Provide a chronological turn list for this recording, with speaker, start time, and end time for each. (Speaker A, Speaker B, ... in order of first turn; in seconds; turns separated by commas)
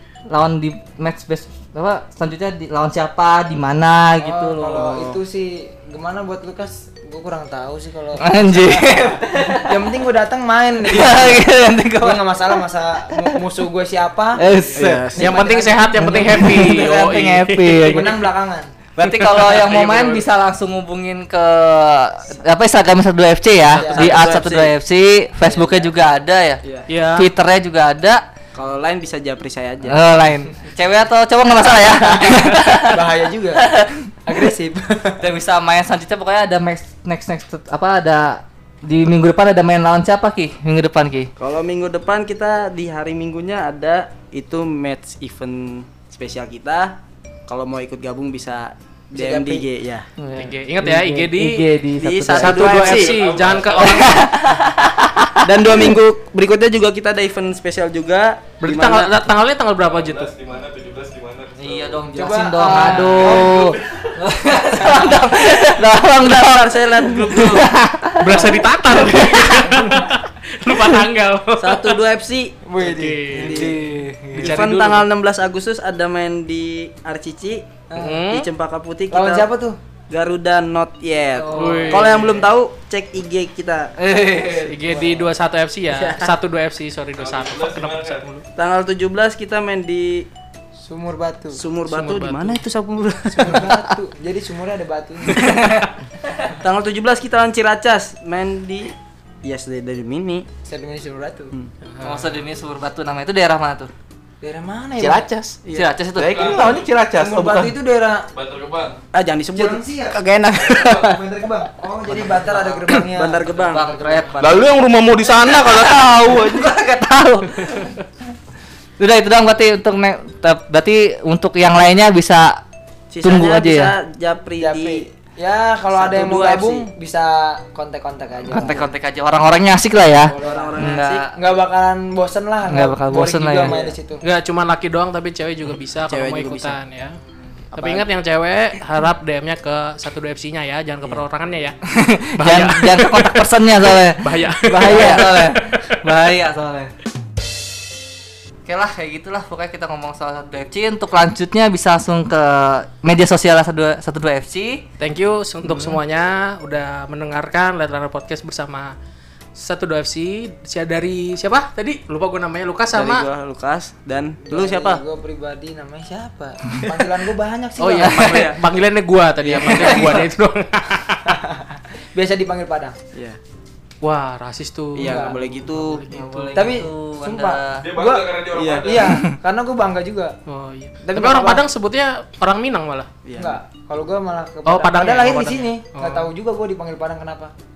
Speaker A: 0.3-4.9, Speaker B: 4.2-14.4, Speaker C: 4.6-5.2, Speaker A: 8.2-9.8, Speaker A: 10.8-12.6, Speaker A: 14.4-15.1, Speaker D: 14.5-18.1, Speaker C: 14.7-15.4, Speaker B: 15.0-16.3, Speaker A: 15.9-18.2, Speaker B: 17.8-18.7, Speaker A: 18.9-26.6, Speaker D: 19.2-20.2, Speaker D: 23.7-24.2, Speaker B: 23.7-24.3, Speaker C: 23.9-24.7, Speaker C: 25.4-25.9, Speaker C: 26.6-26.9, Speaker D: 26.9-27.3, Speaker A: 27.1-28.2, Speaker C: 28.5-30.0, Speaker A: 29.9-33.0, Speaker B: 31.8-33.6, Speaker A: 33.5-34.1, Speaker B: 34.2-35.2, Speaker A: 35.2-41.3, Speaker C: 41.4-50.1, Speaker B: 49.1-49.7, Speaker A: 50.2-52.9, Speaker D: 50.4-51.6, Speaker C: 52.0-53.1, Speaker D: 52.4-54.3, Speaker E: 52.8-54.2, Speaker A: 53.8-55.8, Speaker C: 55.4-59.1, Speaker D: 58.6-60.3, Speaker E: 59.8-62.1, Speaker A: 61.5-69.7, Speaker B: 62.1-63.8, Speaker D: 62.6-63.5, Speaker C: 66.1-67.7, Speaker D: 68.1-72.0, Speaker C: 71.6-72.5, Speaker B: 72.6-73.6, Speaker D: 72.8-73.7, Speaker A: 73.3-74.7, Speaker C: 73.3-73.8, Speaker D: 74.3-75.1, Speaker C: 74.3-77.6, Speaker B: 77.9-78.2, Speaker D: 78.0-78.5, Speaker C: 78.3-79.5, Speaker B: 79.1-79.8, Speaker C: 80.1-83.9, Speaker A: 81.4-82.4, Speaker D: 81.5-82.4, Speaker A: 84.0-84.8, Speaker D: 84.6-88.4, Speaker B: 84.9-85.3, Speaker C: 85.9-86.3, Speaker E: 87.2-88.2, Speaker C: 88.5-90.3, Speaker B: 90.8-91.6, Speaker C: 91.5-93.9, Speaker D: 91.8-92.6, Speaker B: 93.3-95.6, Speaker A: 95.2-96.5, Speaker C: 96.6-100.5, Speaker B: 100.6-101.5, Speaker D: 101.9-102.4, Speaker A: 102.0-103.9, Speaker B: 104.4-105.3, Speaker F: 105.0-105.6, Speaker C: 105.7-105.9, Speaker A: 105.7-106.8, Speaker F: 106.1-107.7, Speaker E: 106.2-107.0, Speaker B: 107.1-108.3, Speaker E: 108.3-109.0, Speaker C: 109.1-111.2, Speaker B: 109.5-110.2, Speaker E: 110.7-111.0, Speaker B: 110.8-114.4, Speaker A: 112.2-114.7, Speaker C: 112.9-114.4, Speaker F: 114.4-116.7, Speaker A: 115.4-118.0, Speaker A: 119.0-122.6, Speaker C: 123.1-125.1, Speaker A: 123.2-123.9, Speaker B: 124.6-128.9, Speaker C: 125.9-126.9, Speaker A: 128.5-131.3, Speaker C: 128.5-128.9, Speaker B: 130.3-134.2, Speaker C: 130.3-131.2, Speaker A: 132.7-133.7, Speaker C: 133.6-133.9, Speaker D: 134.2-137.2, Speaker C: 136.1-136.8, Speaker B: 137.7-138.0, Speaker D: 137.7-141.8, Speaker A: 141.9-146.9, Speaker D: 142.3-145.9, Speaker A: 148.7-154.8, Speaker D: 155.0-158.9, Speaker C: 155.6-156.0, Speaker D: 159.6-163.3, Speaker C: 162.9-165.0, Speaker B: 164.5-168.4, Speaker D: 167.8-171.3, Speaker C: 168.0-168.6, Speaker C: 169.4-170.2, Speaker A: 169.7-170.2, Speaker B: 171.3-173.0, Speaker D: 174.0-176.8, Speaker C: 174.9-176.0, Speaker B: 175.0-175.4, Speaker A: 176.1-177.8, Speaker B: 176.5-180.3, Speaker E: 177.8-179.2, Speaker C: 178.5-179.1, Speaker D: 180.5-183.1, Speaker B: 181.0-181.6, Speaker C: 183.2-183.6, Speaker B: 183.3-187.5, Speaker D: 184.7-186.3